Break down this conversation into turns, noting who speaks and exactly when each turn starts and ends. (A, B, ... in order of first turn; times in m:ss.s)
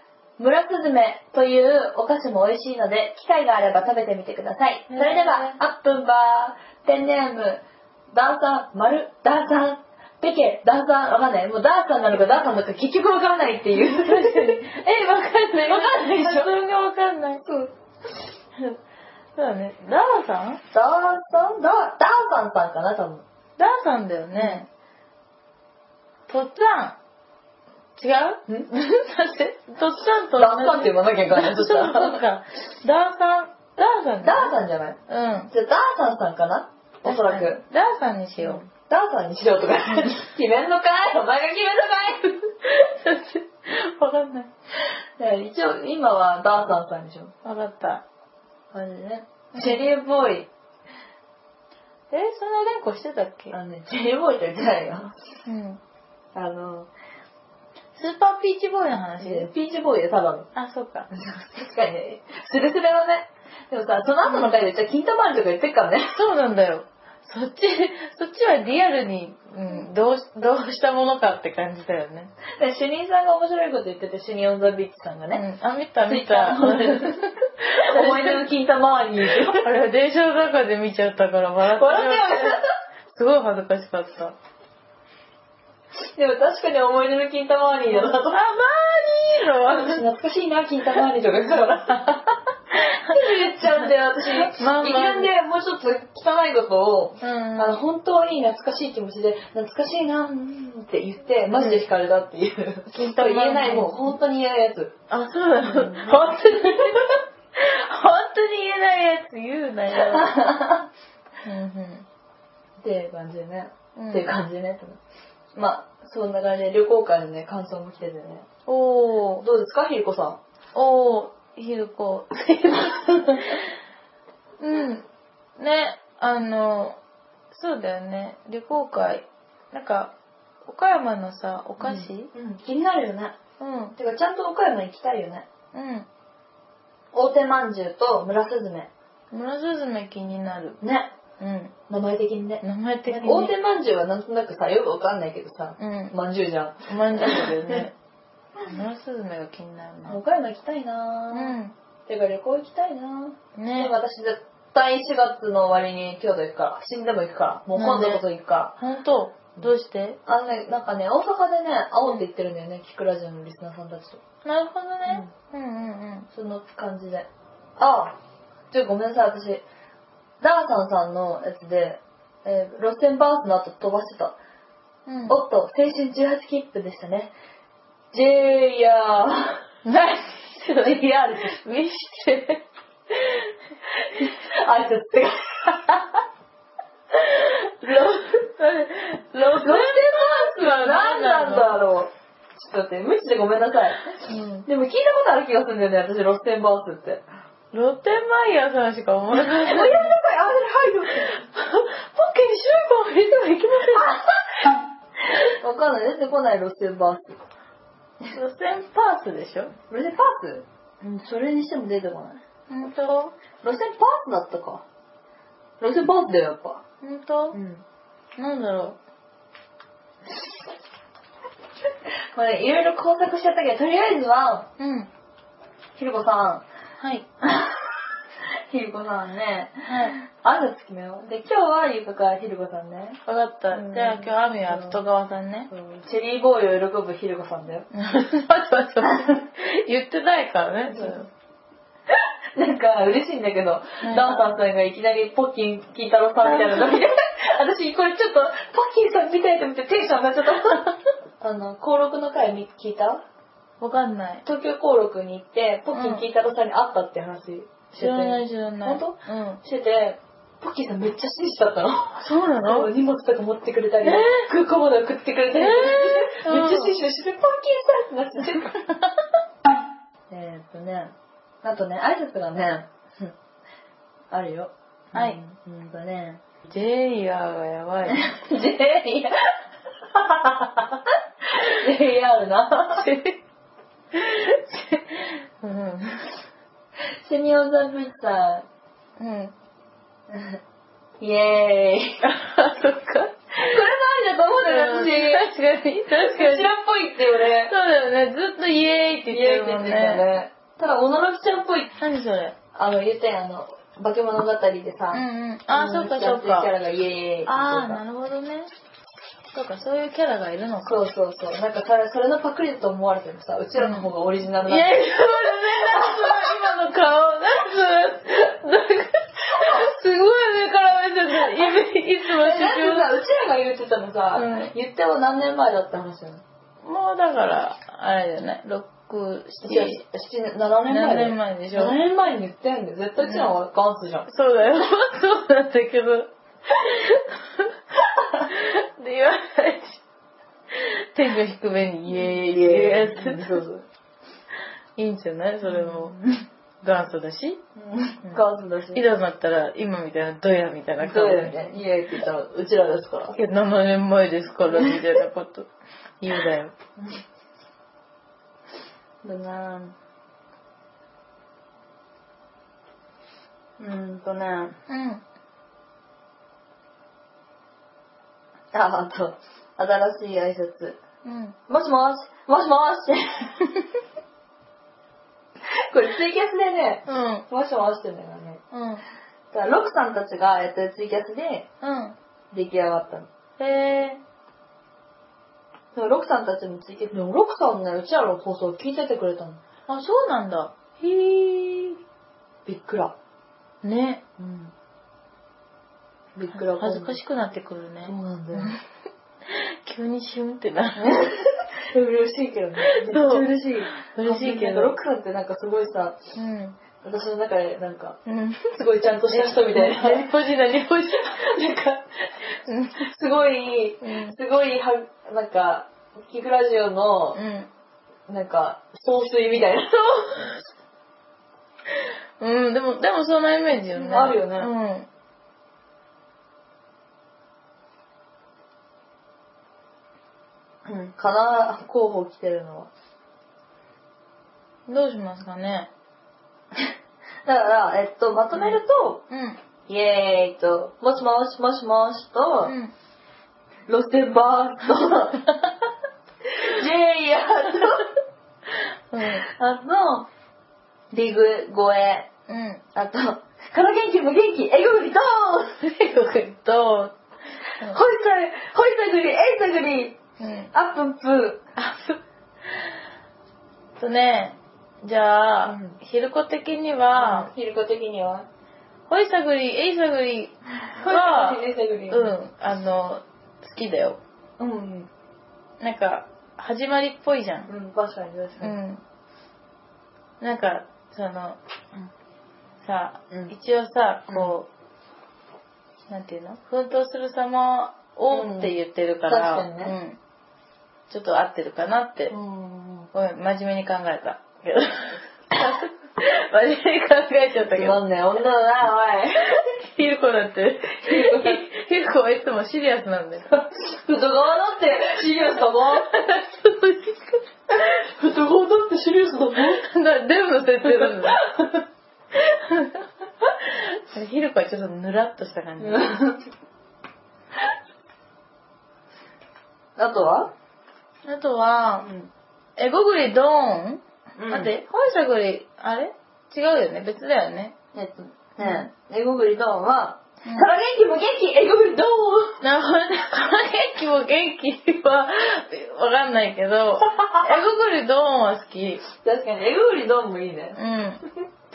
0:00.4-0:07.6 A
0:04.9-0:05.6 B
0:08.1-0:16.5 A
0:13.7-0:17.4 B
0:17.4-0:17.7 A
0:19.4-0:20.6 B
0:20.7-0:23.2 A
0:23.6-0:24.7 B
0:24.4-0:24.6 A
0:26.3-0:27.0 B
0:28.0-0:34.6 B
0:30.4-0:32.2 A
0:34.2-0:35.0 A
0:35.1-0:35.5 B
0:35.5-0:37.6 A
0:37.0-0:38.6 B
0:38.4-0:42.5 A
0:42.7-0:44.5 B
0:45.2-0:47.3 A
0:47.4-0:48.0 B
0:48.7-0:50.5 A
0:49.5-0:49.8 B
0:52.1-0:53.6 B
0:53.5-0:55.2 A
0:55.5-0:55.8 B
0:56.4-0:56.9 A
0:58.0-0:59.5 B
0:59.2-1:00.5 A
1:00.6-1:01.1 B
1:01.1-1:06.2 A
1:04.2-1:04.6 B
1:06.1-1:12.3 B
1:12.6-1:15.4 A
1:15.3-1:18.5 B
1:16.0-1:19.7 A
1:19.2-1:24.4 B
1:21.7-1:22.7 A
1:26.2-1:28.4 A
1:28.0-1:30.0 B
1:29.6-1:45.0 A
1:32.8-1:35.3 B
1:37.2-1:37.8 B
1:42.9-1:44.1 B
1:45.1-1:50.4 B
1:45.6-1:47.1 A
1:50.0-1:50.8 A
1:51.4-1:52.1 B
1:52.8-1:55.0 A
1:54.0-1:54.3 B
1:55.6-1:58.5 A
1:58.7-1:59.5 B
1:59.4-2:00.4 A
2:00.7-2:03.8 B
2:04.6-2:05.1 B
2:05.6-2:07.0 B
2:07.5-2:10.1 B
2:10.6-2:12.3 B
2:11.8-2:13.4 A
2:13.6-2:14.0 B
2:14.0-2:15.5 A
2:15.7-2:16.1 B
2:17.1-2:18.9 A
2:19.3-2:20.8 B
2:20.8-2:21.1 A
2:21.4-2:21.7 B
2:21.9-2:27.8 A
2:22.6-2:23.5 B
2:25.8-2:26.2 B
2:26.9-2:27.9 B
2:28.7-2:30.2 B
2:30.0-2:31.6 A
2:31.3-2:31.8 B
2:32.1-2:38.7 A
2:33.6-2:33.9 B
2:37.8-2:38.2 B
2:38.8-2:40.2 B
2:40.3-2:44.2 A
2:44.4-2:46.3 B
2:45.1-2:45.3 A
2:46.3-2:48.2 A
2:48.7-2:49.6 A
2:50.4-2:54.4 A
2:55.1-2:55.4 B
2:55.3-2:57.3 A
2:58.1-2:59.6 A
2:59.8-3:02.6 B
3:00.7-3:01.6 A
3:04.0-3:06.1 A
3:07.8-3:08.5 A
3:08.6-3:11.7 B
3:09.4-3:17.2 A
3:14.2-3:14.7 B
3:17.7-3:20.2 B
3:19.4-3:21.3 A
3:21.3-3:24.2 B
3:23.9-3:24.3 A
3:25.4-3:27.4 A
3:28.3-3:29.7 B
3:29.9-3:32.4 A
3:32.7-3:33.4 B
3:33.6-3:34.8 A
3:35.8-3:36.8 A
3:37.0-3:37.6 B
3:37.5-3:37.8 A
3:38.4-3:39.0 B
3:42.4-3:44.7 A
3:44.8-3:45.1 B
3:46.0-3:46.6 A
3:47.0-3:47.3 B
3:47.4-3:47.8 A
3:48.7-3:53.2 A
3:49.9-3:50.2 B
3:53.3-3:55.7 B
3:53.7-3:55.0 A
3:55.7-3:57.9 A
3:57.9-4:01.3 B
4:00.9-4:01.2 A
4:02.1-4:13.2 A
4:04.0-4:04.4 B
4:06.4-4:07.0 B
4:13.8-4:14.4 B
4:14.4-4:28.9 A
4:15.9-4:16.2 B
4:18.0-4:19.6 B
4:22.2-4:22.9 B
4:24.0-4:24.5 B
4:25.5-4:27.0 B
4:30.3-4:33.3 A
4:34.3-4:36.4 A
4:36.7-4:38.3 B
4:38.1-4:39.5 A
4:40.1-4:43.1 A
4:42.9-4:43.4 B
4:44.1-4:46.4 B
4:47.2-4:48.7 A
4:49.2-4:49.5 B
4:50.3-4:50.6 A
4:51.2-4:52.2 A
4:52.2-4:53.8 B
4:53.6-4:55.5 A
4:54.6-4:56.7 B
4:56.1-4:57.7 A
4:57.7-5:00.2 B
4:59.3-5:02.0 A
5:02.0-5:02.6 B
5:02.8-5:08.0 A
5:05.1-5:06.7 B
5:07.5-5:08.7 B
5:09.5-5:11.0 B
5:10.8-5:16.6 A
5:13.8-5:14.1 B
5:14.6-5:23.2 B
5:21.3-5:26.4 A
5:24.4-5:24.7 B
5:26.8-5:30.0 B
5:29.6-5:34.3 A
5:30.9-5:32.0 B
5:33.2-5:33.5 B
5:34.3-5:37.7 B
5:38.3-5:40.0 B
5:40.7-5:43.6 B
5:42.1-5:43.9 A
5:45.0-5:46.2 B
5:45.6-5:46.4 A
5:46.8-5:47.6 B
5:47.8-5:49.0 A
5:48.9-5:51.6 B
5:51.0-5:53.4 A
5:53.4-5:55.7 B
5:56.2-5:56.7 B
5:59.2-6:00.0 A
6:03.8-6:04.8 A
6:04.9-6:05.2 B
6:08.7-6:11.0 A
6:11.2-6:11.6 B
6:11.7-6:13.6 A
6:15.9-6:18.6 A
6:17.1-6:17.5 B
6:18.7-6:19.0 B
6:19.5-6:21.7 A
6:21.8-6:22.2 B
6:22.5-6:23.3 A
6:23.6-6:24.2 B
6:26.0-6:29.6 A
6:29.9-6:31.2 B
6:31.2-6:31.9 A
6:32.7-6:33.2 A
6:33.8-6:34.2 B
6:34.4-6:34.7 A
6:36.4-6:37.2 A
6:36.5-6:38.8 B
6:38.0-6:38.8 A
6:39.4-6:41.3 B
6:41.1-6:46.2 A
6:42.9-6:45.0 B
6:46.4-6:46.8 B
6:47.0-6:50.3 A
6:48.3-6:48.7 B
6:49.3-6:51.4 B
6:51.2-6:52.3 A
6:52.7-6:53.1 B
6:53.0-6:57.4 A
6:54.0-6:54.4 B
6:57.4-6:57.7 B
6:58.3-7:00.5 A
7:01.9-7:05.1 B
7:03.9-7:04.7 A
7:10.9-7:12.9 A
7:14.9-7:15.9 B
7:17.5-7:19.2 A
7:19.3-7:19.6 B
7:19.9-7:22.8 A
7:22.6-7:22.9 B
7:23.9-7:25.5 A
7:26.6-7:28.1 A
7:29.1-7:29.5 B
7:29.4-7:30.3 A
7:31.1-7:32.3 A
7:32.5-7:32.8 B
7:33.0-7:35.8 A
7:35.8-7:37.2 B
7:37.8-7:40.2 A
7:40.4-7:40.7 B
7:40.7-7:42.1 A
7:44.0-7:47.5 B
7:45.7-7:46.0 A
7:47.2-7:48.5 A
7:49.1-7:54.2 B
7:50.9-7:52.4 A
7:54.6-7:55.1 A
7:55.8-7:57.7 B
7:57.7-7:58.8 A
7:58.6-7:59.0 B
8:00.4-8:01.6 B
8:02.8-8:04.7 B
8:04.3-8:04.6 A
8:06.1-8:10.2 B
8:08.3-8:08.7 A
8:09.3-8:10.0 A
8:11.1-8:12.3 B
8:12.3-8:13.1 A
8:13.1-8:18.0 B
8:17.7-8:19.6 A
8:19.5-8:23.6 B
8:21.0-8:21.6 A
8:23.7-8:26.1 A
8:26.1-8:27.5 B
8:27.7-8:29.9 A
8:29.6-8:31.5 B
8:30.9-8:31.7 A
8:32.3-8:36.1 B
8:35.8-8:36.4 A
8:40.0-8:40.5 A
8:41.3-8:42.1 B
8:42.0-8:42.3 A
8:42.8-8:47.8 B
8:44.4-8:44.7 A
8:47.9-8:52.6 A
8:48.6-8:48.9 B
8:52.6-8:59.0 B
8:59.2-9:00.8 A
9:00.8-9:01.2 B